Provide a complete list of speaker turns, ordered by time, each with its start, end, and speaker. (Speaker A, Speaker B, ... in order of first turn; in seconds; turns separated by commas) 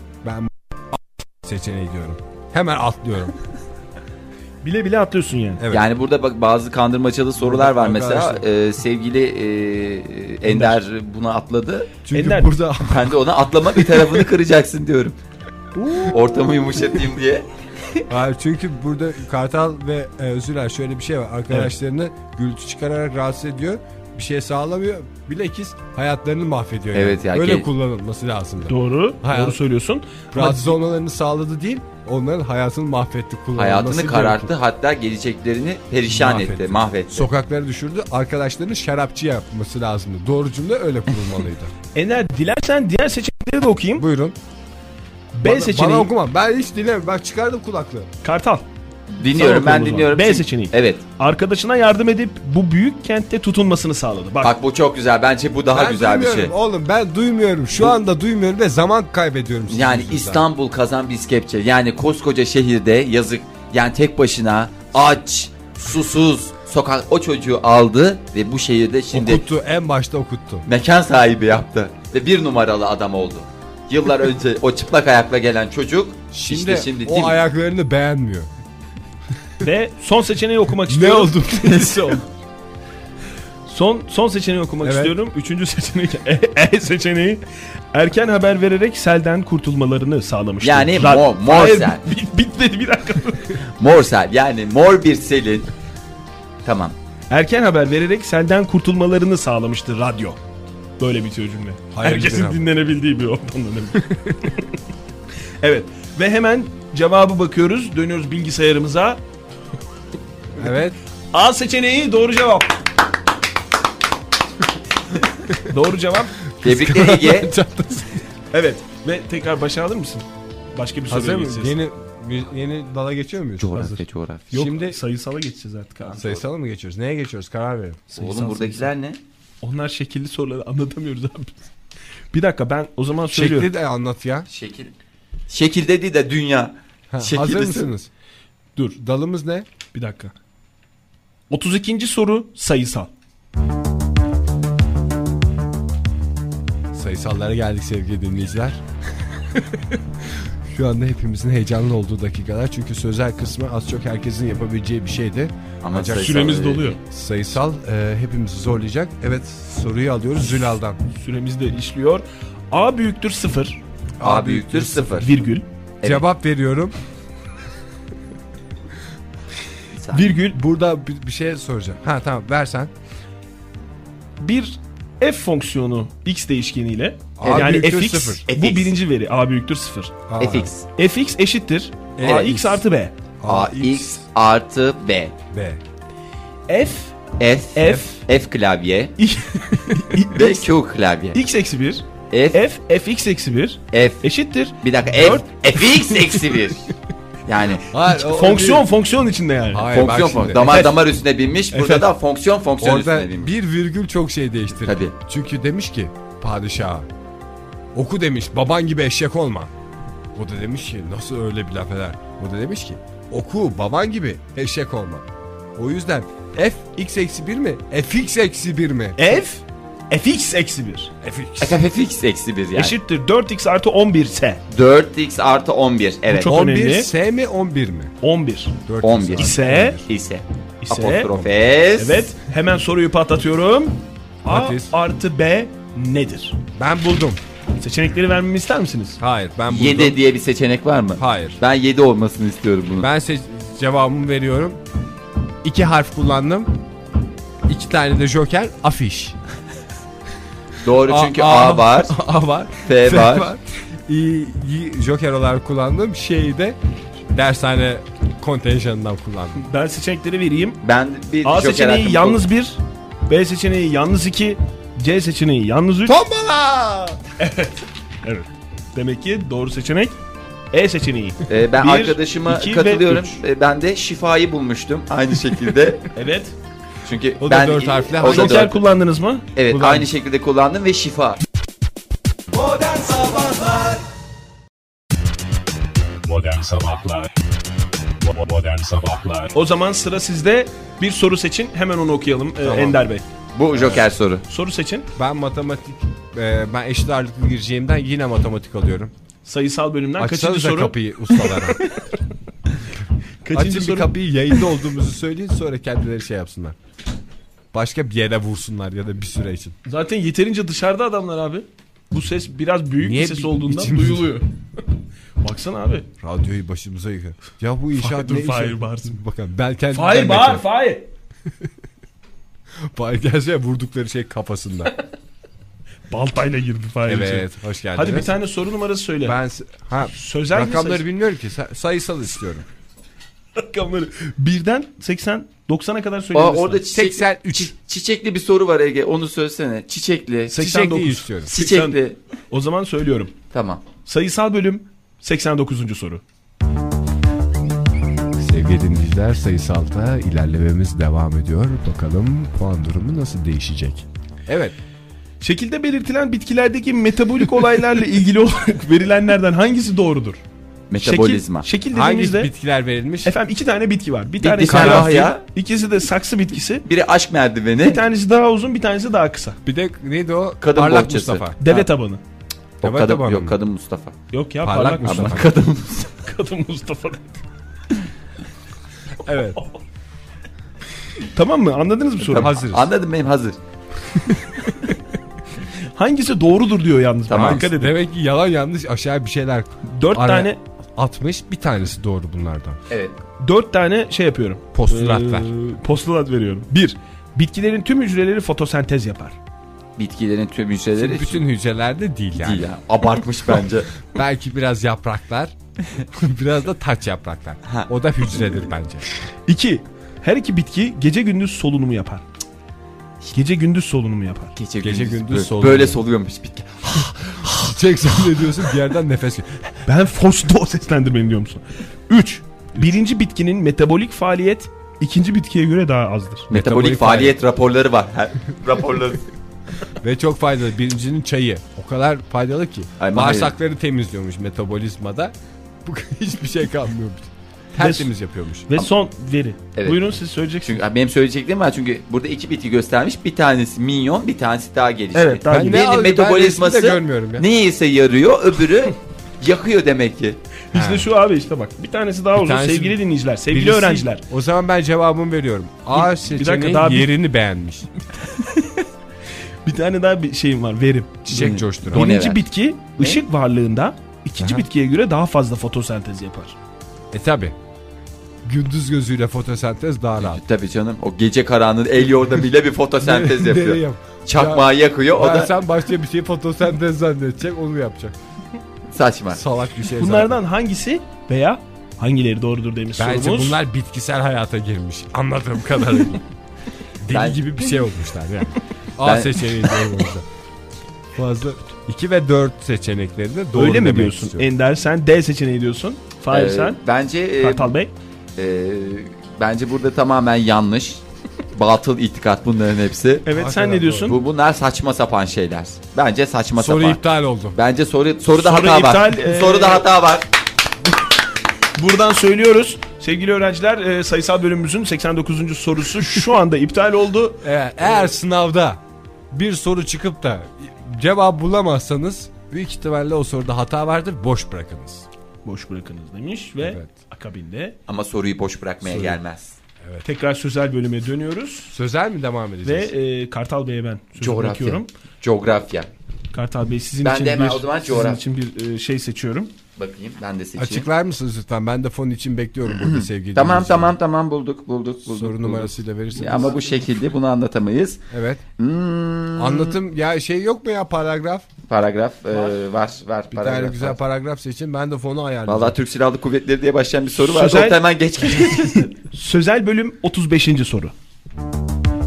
Speaker A: 0.2-3.4, Speaker B: 4.6-5.6, Speaker A: 5.6-5.9, Speaker C: 5.7-11.9, Speaker A: 7.4-8.4, Speaker B: 10.5-10.8, Speaker A: 12.1-13.2, Speaker B: 12.1-12.6, Speaker C: 12.8-15.2, Speaker B: 15.8-16.1, Speaker C: 16.1-17.5, Speaker A: 18.1-29.6, Speaker C: 26.9-27.7, Speaker B: 28.7-30.8, Speaker A: 30.3-34.5, Speaker C: 33.6-37.3, Speaker A: 36.1-41.7, Speaker B: 41.9-44.1, Speaker A: 44.0-44.4, Speaker B: 45.3-46.1, Speaker A: 45.4-48.1, Speaker B: 48.2-48.7, Speaker C: 49.1-51.0, Speaker B: 49.3-54.5, Speaker C: 54.4-56.5, Speaker A: 55.7-60.5, Speaker C: 59.7-69.4, Speaker A: 69.1-70.7, Speaker C: 70.7-77.4, Speaker A: 76.3-78.5, Speaker B: 79.6-81.5, Speaker A: 80.9-82.2, Speaker C: 81.6-82.2, Speaker B: 83.7-93.6, Speaker A: 84.8-85.2, Speaker C: 90.6-92.0, Speaker C: 93.8-95.7, Speaker C: 96.7-97.0, Speaker B: 97.3-100.4, Speaker B: 101.0-104.7, Speaker A: 101.9-102.7, Speaker B: 105.6-109.2, Speaker A: 110.5-111.0, Speaker B: 111.3-112.8, Speaker B: 115.7-116.4, Speaker A: 116.6-118.2, Speaker C: 116.6-117.5, Speaker B: 118.5-121.8, Speaker A: 121.1-123.9, Speaker C: 123.6-124.5, Speaker B: 124.5-126.3, Speaker A: 124.5-125.0, Speaker C: 126.1-126.4, Speaker A: 126.2-128.1, Speaker B: 128.1-128.9, Speaker C: 128.2-129.2, Speaker B: 129.6-131.7, Speaker B: 132.3-133.7, Speaker A: 133.3-134.5, Speaker C: 134.5-134.9, Speaker C: 135.5-137.9, Speaker A: 137.1-138.1, Speaker A: 139.0-139.7, Speaker B: 139.9-140.3, Speaker B: 141.5-143.1, Speaker A: 146.9-148.8, Speaker A: 149.4-156.5, Speaker C: 155.8-157.0, Speaker B: 156.2-157.0, Speaker A: 157.0-161.0, Speaker B: 161.1-163.8, Speaker A: 164.2-165.2, Speaker C: 164.2-165.4, Speaker B: 165.1-165.7, Speaker A: 166.0-166.9, Speaker C: 170.0-170.4, Speaker B: 170.1-170.6, Speaker A: 170.4-172.9, Speaker B: 174.4-180.2, Speaker A: 177.4-178.4, Speaker C: 177.4-177.8, Speaker C: 178.5-178.9, Speaker A: 180.3-180.7, Speaker C: 180.4-180.9, Speaker B: 181.0-183.1, Speaker A: 182.2-182.8, Speaker A: 183.4-184.2, Speaker C: 183.5-185.3, Speaker A: 185.5-185.8, Speaker B: 186.7-187.2, Speaker C: 187.4-189.1, Speaker B: 187.8-188.2, Speaker B: 189.2-190.6, Speaker C: 190.3-191.4, Speaker B: 191.3-196.1, Speaker C: 192.3-192.6, Speaker C: 193.9-194.3, Speaker C: 194.8-196.9, Speaker C: 197.5-197.9, Speaker A: 197.9-198.9, Speaker B: 198.1-199.9, Speaker A: 199.7-200.7, Speaker C: 199.9-203.5, Speaker B: 200.6-201.0, Speaker B: 201.7-202.1, Speaker A: 202.8-207.1, Speaker C: 204.8-205.1, Speaker A: 207.9-209.7, Speaker A: 210.3-219.4, Speaker B: 219.2-221.1, Speaker A: 221.2-221.8, Speaker C: 221.6-223.0, Speaker B: 222.7-224.6, Speaker C: 224.7-226.5, Speaker B: 226.3-227.1, Speaker A: 226.4-228.1, Speaker B: 228.2-228.8, Speaker A: 228.9-230.1, Speaker C: 229.0-232.3, Speaker B: 229.4-230.0, Speaker B: 230.8-231.3, Speaker B: 232.0-236.6, Speaker A: 234.5-234.9, Speaker A: 236.8-237.4, Speaker B: 237.8-239.2, Speaker A: 239.2-240.2, Speaker C: 239.7-243.1, Speaker A: 241.2-241.6, Speaker A: 243.0-244.8, Speaker A: 245.6-246.8, Speaker A: 247.7-249.4, Speaker C: 250.8-252.2, Speaker A: 251.1-256.8, Speaker C: 252.8-253.5, Speaker A: 257.3-259.6, Speaker B: 259.6-260.8, Speaker C: 260.8-262.4, Speaker B: 261.4-266.2, Speaker A: 266.1-267.2, Speaker B: 267.4-270.2, Speaker B: 270.7-273.4, Speaker C: 271.5-276.1, Speaker B: 276.1-276.6, Speaker C: 277.0-278.7, Speaker A: 277.4-278.7, Speaker B: 278.2-279.5, Speaker C: 279.6-281.4, Speaker A: 279.7-280.1, Speaker B: 283.0-283.9, Speaker D: 286.2-287.4, Speaker D: 288.0-289.5, Speaker B: 289.5-293.2, Speaker A: 292.6-293.0, Speaker C: 293.5-294.4, Speaker A: 293.7-294.1, Speaker B: 294.5-295.1, Speaker A: 295.2-299.1, Speaker B: 299.4-302.1, Speaker A: 300.2-301.8, Speaker B: 303.4-304.1, Speaker A: 303.5-306.8, Speaker A: 307.7-309.8, Speaker B: 309.9-314.5, Speaker A: 313.0-314.3, Speaker B: 315.4-316.1, Speaker A: 316.2-320.7, Speaker B: 317.9-319.2, Speaker B: 319.9-321.1, Speaker A: 322.9-324.9, Speaker B: 326.1-329.4, Speaker A: 327.1-328.3, Speaker A: 329.2-332.7, Speaker B: 330.1-331.1, Speaker B: 333.6-336.8, Speaker C: 336.3-340.6, Speaker A: 336.9-337.7, Speaker B: 340.5-342.0, Speaker A: 340.6-341.5, Speaker C: 341.5-342.2, Speaker B: 342.5-343.4, Speaker C: 343.5-343.8, Speaker B: 344.1-346.2, Speaker A: 348.4-354.8, Speaker B: 355.4-360.4, Speaker C: 360.9-361.7, Speaker B: 361.0-362.5, Speaker A: 361.9-363.4, Speaker B: 363.2-366.9, Speaker C: 364.4-365.4, Speaker A: 364.6-365.3, Speaker C: 366.9-368.0, Speaker B: 367.8-369.6, Speaker A: 369.6-371.6, Speaker C: 370.6-371.9, Speaker B: 371.6-372.2, Speaker A: 372.8-373.6, Speaker C: 372.8-374.1, Speaker B: 374.3-375.4, Speaker A: 374.6-375.5, Speaker C: 375.0-376.1, Speaker B: 376.2-377.4, Speaker A: 379.2-379.6, Speaker B: 381.3-382.5, Speaker C: 382.2-383.6, Speaker A: 382.4-382.9, Speaker B: 385.9-388.0, Speaker C: 387.3-387.7, Speaker A: 387.3-392.8, Speaker B: 389.9-390.6, Speaker C: 392.9-393.2, Speaker B: 393.4-399.4, Speaker A: 394.7-395.5, Speaker C: 400.0-401.5, Speaker A: 401.0-402.7, Speaker C: 402.4-403.9, Speaker A: 404.1-409.1, Speaker C: 407.6-408.7, Speaker B: 409.5-412.2, Speaker B: 413.2-414.6, Speaker C: 414.6-417.2, Speaker A: 414.8-416.0, Speaker A: 416.9-419.7, Speaker B: 419.9-426.5, Speaker C: 426.5-429.2, Speaker A: 426.5-427.4, Speaker A: 430.0-435.3, Speaker C: 433.0-433.5, Speaker A: 435.9-438.7, Speaker B: 437.8-438.1, Speaker B: 438.7-440.8, Speaker C: 439.8-450.4, Speaker B: 445.1-445.9, Speaker A: 445.5-447.5, Speaker B: 450.7-454.2, Speaker A: 450.7-451.1, Speaker A: 452.4-457.9, Speaker B: 455.9-457.1, Speaker B: 459.6-466.6, Speaker A: 461.3-462.1, Speaker C: 461.3-462.4, Speaker A: 464.4-464.7, Speaker A: 467.1-467.6, Speaker A: 468.4-470.4, Speaker C: 470.2-475.5, Speaker A: 473.0-478.1, Speaker C: 478.9-479.4, Speaker A: 479.3-480.4, Speaker B: 480.0-483.6, Speaker A: 483.0-486.2, Speaker A: 487.0-490.3, Speaker C: 487.1-487.8, Speaker C: 489.0-489.7, Speaker A: 491.1-494.5, Speaker B: 493.5-496.8, Speaker C: 496.3-497.7, Speaker B: 497.4-497.9, Speaker C: 498.4-501.0, Speaker C: 501.5-503.3, Speaker B: 503.2-504.2, Speaker A: 503.3-504.2, Speaker C: 504.1-507.0, Speaker A: 506.6-507.6, Speaker C: 507.5-510.3, Speaker B: 508.4-509.9, Speaker B: 511.8-517.4, Speaker A: 517.4-518.8, Speaker A: 519.3-525.1, Speaker B: 525.5-527.8, Speaker A: 526.6-526.9, Speaker C: 527.9-529.6, Speaker A: 528.8-529.2, Speaker B: 530.0-531.7, Speaker A: 531.7-532.9, Speaker B: 532.6-534.9, Speaker C: 534.2-535.9, Speaker B: 536.3-539.5, Speaker C: 537.0-538.2, Speaker C: 539.8-540.9, Speaker A: 540.6-544.0, Speaker C: 542.7-548.0, Speaker A: 545.1-546.6, Speaker A: 548.1-548.4, Speaker C: 548.6-549.8, Speaker A: 549.4-551.5, Speaker C: 551.7-554.0, Speaker A: 553.3-555.8, Speaker C: 555.5-559.0, Speaker B: 557.1-557.8, Speaker B: 559.0-560.9